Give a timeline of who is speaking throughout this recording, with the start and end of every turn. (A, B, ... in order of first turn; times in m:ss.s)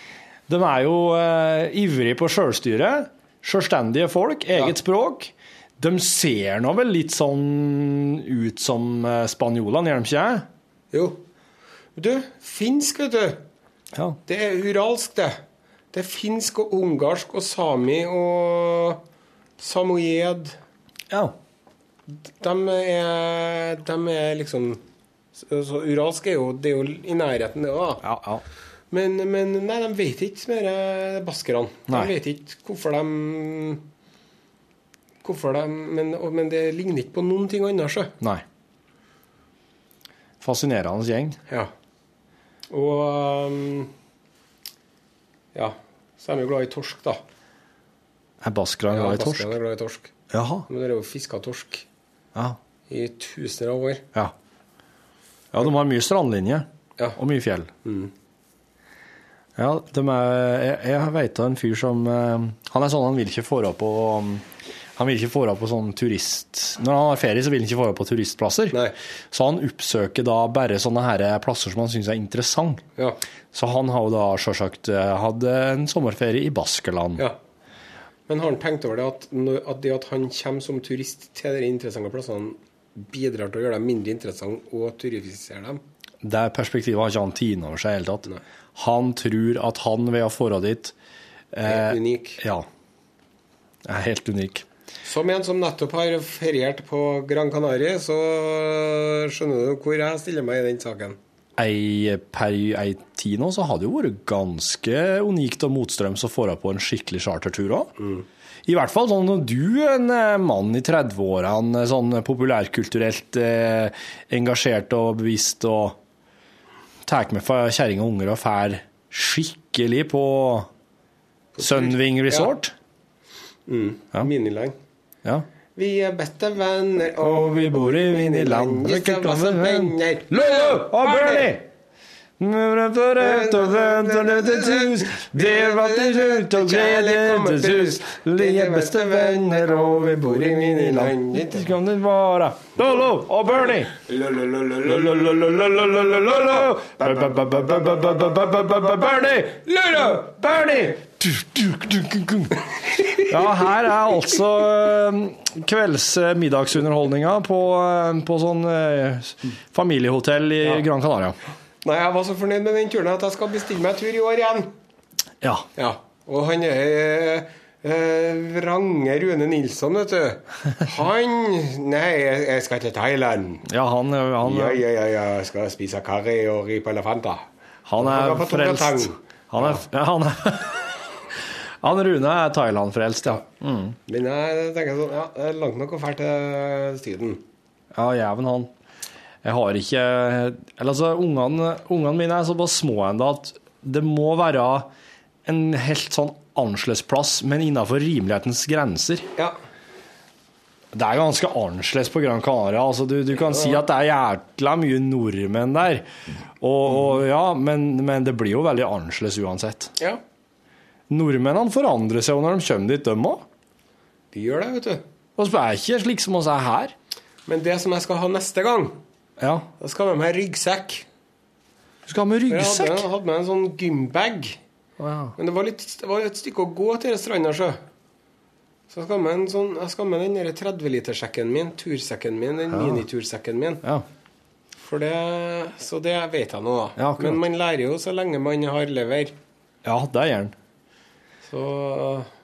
0:00.5-0:10.5 A
0:10.9-0:11.2 B
0:12.0-0:13.4 B
0:14.3-0:15.4 B
0:15.9-0:19.0 B
0:19.6-0:20.6 B
0:21.1-0:21.4 A
0:22.3-0:24.8 B
0:25.4-0:28.0 B
0:28.0-0:28.4 A
0:28.9-0:33.8 B
0:31.9-0:32.1 A
0:35.2-0:38.1 B
0:40.4-0:41.4 A
0:42.7-0:43.9 B
0:45.5-0:47.2 B
0:48.4-0:49.5 A
0:48.9-0:50.1 B
0:50.3-0:50.7 A
0:50.7-0:51.9 B
0:52.9-0:54.1 B
0:55.5-0:57.7 A
0:57.8-0:58.1 B
0:59.6-1:04.4 A
1:05.0-1:12.8 A
1:13.5-1:17.2 A
1:18.3-1:25.8 B
1:26.2-1:31.0 A
1:31.5-1:32.7 A
1:31.6-1:32.4 B
1:33.8-1:34.7 A
1:35.0-1:41.2 B
1:41.6-1:47.9 A
1:48.7-1:56.0 A
1:57.0-2:00.7 A
2:01.6-2:02.5 B
2:01.6-2:02.7 A
2:03.7-2:04.8 B
2:05.8-2:11.5 B
2:07.2-2:11.7 A
2:12.4-2:24.0 A
2:13.2-2:21.7 B
2:24.1-2:24.9 B
2:24.8-2:41.4 A
2:29.8-2:30.1 B
2:41.8-2:44.7 B
2:45.4-2:45.7 A
2:45.8-2:53.7 B
2:53.7-2:54.8 A
2:54.4-2:57.4 B
2:57.9-3:01.0 A
2:58.0-2:59.8 B
3:01.8-3:04.0 A
3:04.1-3:07.4 B
3:07.9-3:08.7 A
3:09.4-3:14.9 A
3:15.4-3:19.3 A
3:20.9-3:26.1 A
3:23.4-3:23.8 B
3:26.6-3:29.9 A
3:31.1-3:33.4 A
3:34.3-3:35.0 B
3:35.4-3:36.9 A
3:37.5-3:39.0 B
3:39.4-3:39.7 A
3:39.8-3:41.1 B
3:42.1-3:43.0 A
3:42.5-3:44.6 B
3:45.0-3:45.4 A
3:45.4-3:47.8 B
3:48.9-3:53.8 B
3:52.7-3:53.0 A
3:54.8-3:59.3 B
3:57.0-3:57.4 A
3:59.8-4:00.6 A
4:01.4-4:02.3 B